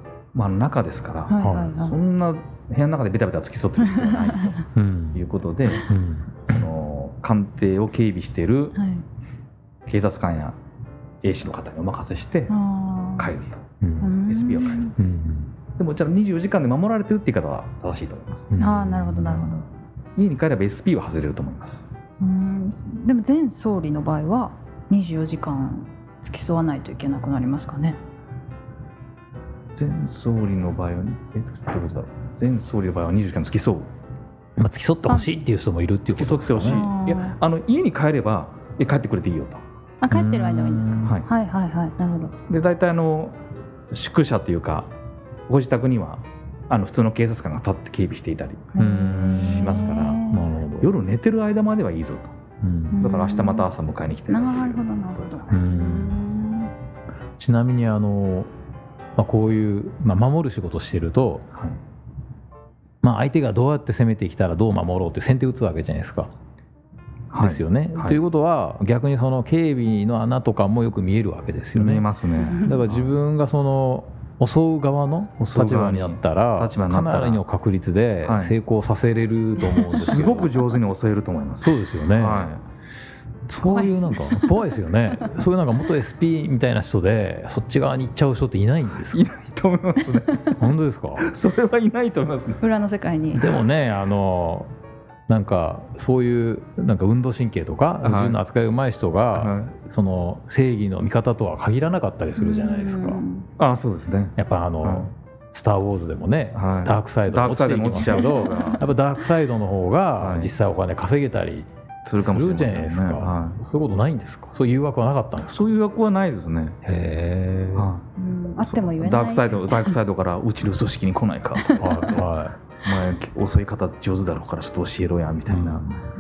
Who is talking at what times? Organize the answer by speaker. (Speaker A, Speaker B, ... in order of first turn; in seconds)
Speaker A: 0.3-4.6, 5.1-5.8, 6.5-8.8, 9.8-10.6, 11.2-12.5, 13.2-13.6, 14.3-14.9, 15.8-18.5, 20.1-21.9, 29.8-33.9, 36.1-39.6, 42.5-43.4, 43.9-44.9, 45.5-50.2, 50.8-52.3, 53.0-55.6, 61.5-61.8, 67.3-68.2, 71.8-73.1, 75.4-77.4, 78.2-78.5, 79.9-82.6, 89.1-90.5, 91.2-92.6, 98.0-98.4, 99.3-99.7, 103.6-105.1, 106.5-108.8, 110.2-110.5, 112.0-113.6, 115.5-116.8, 117.8-118.0, 118.6-122.3, 122.8-125.8
Speaker B: 1.3-2.0, 4.0-4.5, 8.8-9.0, 12.5-13.3, 14.0-14.9, 18.6-19.6, 22.2-28.0, 36.6-37.4, 40.0-42.3, 48.7-50.5, 52.9-53.7, 54.3-56.7, 72.5-72.8, 83.6-85.2, 90.3-90.6, 92.6-93.6, 102.4-103.5, 108.0-108.8, 118.2-120.0
Speaker C: 1.4-1.7, 4.8-5.2, 5.8-6.6, 13.8-14.1, 14.9-15.5, 18.5-19.6, 34.6-36.9, 40.1-41.1, 48.8-50.9, 52.6-53.0, 55.5-56.2, 57.4-58.5, 59.1-61.5, 63.0-66.3, 67.3-72.1, 72.6-80.7, 81.6-82.5, 83.5-89.2, 90.6-91.2, 93.3-94.7, 95.3-103.2, 104.3-115.7, 116.8-117.9, 121.8-122.6, 125.5-126.0